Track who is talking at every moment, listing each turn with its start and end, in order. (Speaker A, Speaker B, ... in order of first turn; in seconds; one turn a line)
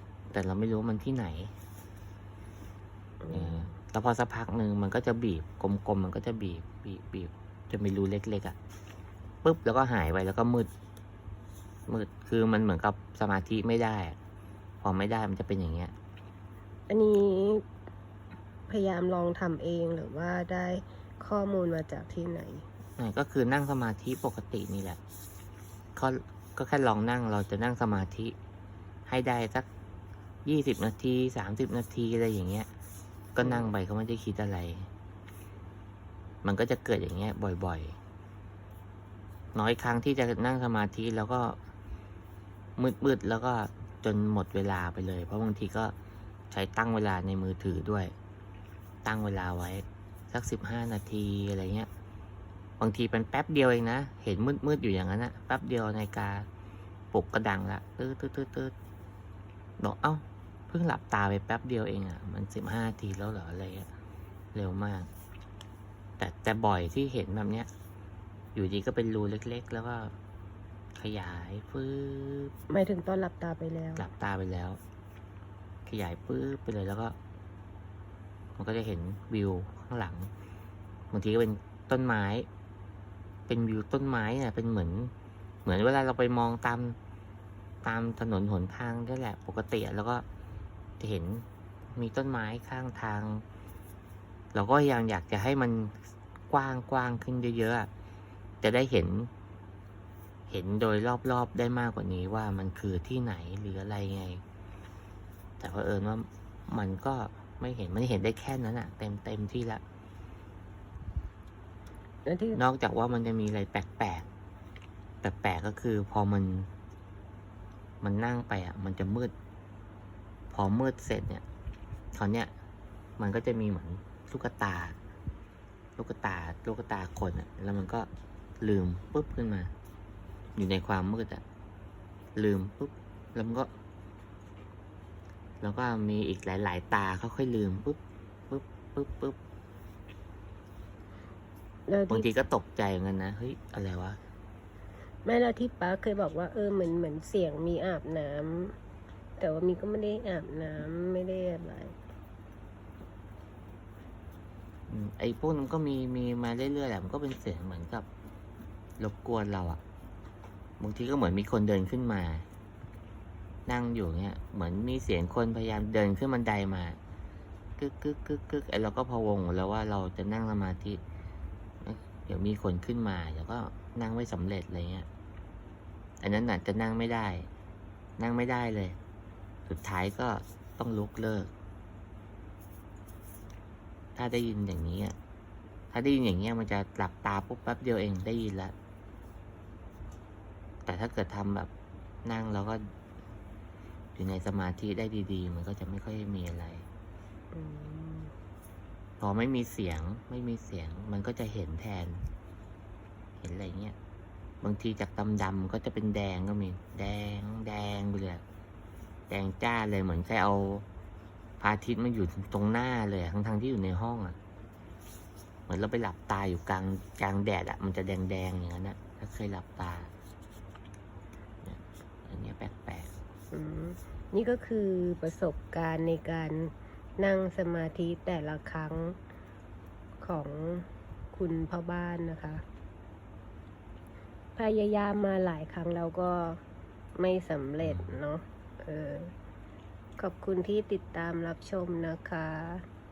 Speaker A: 0.3-1.5
Speaker B: 3.2-3.7
Speaker A: 3.3-8.6
Speaker A: 9.4-10.7
Speaker A: 11.9-14.2
Speaker A: 14.8-15.9
Speaker B: 16.9-17.6
Speaker B: 18.7-22.6
Speaker A: 23.0-25.0
Speaker A: 26.0-28.4
Speaker A: 29.1-29.7
Speaker A: 30.4-32.7
Speaker A: 33.4-34.9
Speaker B: 33.4-33.7
Speaker A: 36.4-38.0
Speaker A: 39.5-41.6
Speaker A: 42.8-46.0
Speaker A: 46.5-48.1
Speaker A: 49.0-51.9
Speaker A: 52.8-56.5
Speaker A: 57.1-58.7
Speaker A: 59.8-63.9
Speaker A: 64.5-65.1
Speaker A: 66.2-67.7
Speaker A: 68.5-70.2
Speaker A: 71.0-72.5
Speaker B: 72.7-74.1
Speaker A: 74.0-74.8
Speaker A: 75.9-77.2
Speaker A: 78.6-80.3
Speaker A: 81.1-82.5
Speaker A: 83.5-85.1
Speaker A: 85.7-87.0
Speaker A: 87.8-90.2
Speaker A: 91.0-93.5
Speaker A: 94.5-96.0
Speaker A: 96.5-97.9
Speaker A: 98.6-99.3
Speaker A: 100.5-104.4
Speaker A: 105.6-109.8
Speaker B: 112.3-112.6
Speaker A: 112.5-114.3
Speaker A: 115.2-116.7
Speaker A: 118.0-119.3
Speaker A: 120.5-121.4
Speaker A: 122.1-122.5
Speaker A: 123.2-125.0
Speaker A: 126.0-128.1
Speaker A: 128.6-129.7
Speaker A: 130.6-131.4
Speaker A: 132.4-133.7
Speaker A: 135.6-138.0
Speaker A: 138.5-139.4
Speaker B: 141.9-142.3
Speaker A: 142.1-144.2
Speaker B: 145.2-148.8
Speaker B: 149.4-152.0
Speaker A: 154.9-158.1
Speaker A: 159.0-159.8
Speaker A: 160.8-162.4
Speaker A: 163.7-167.0
Speaker A: 167.8-171.0
Speaker A: 171.8-175.1
Speaker A: 176.2-177.5
Speaker A: 178.2-179.0
Speaker A: 179.7-181.5
Speaker A: 184.2-185.2
Speaker A: 185.9-188.7
Speaker A: 190.9-191.7
Speaker A: 192.2-192.9
Speaker A: 194.2-196.9
Speaker B: 197.5-198.3
Speaker A: 199.2-202.2
Speaker A: 203.4-204.0
Speaker A: 204.6-208.4
Speaker A: 209.3-210.9
Speaker A: 211.6-214.4
Speaker A: 215.7-220.1
Speaker A: 221.6-223.1
Speaker B: 223.5-229.2
Speaker B: 230.2-232.6
Speaker B: 234.6-236.6
Speaker B: 237.2-239.3
Speaker A: 237.8-238.1
Speaker B: 240.2-242.8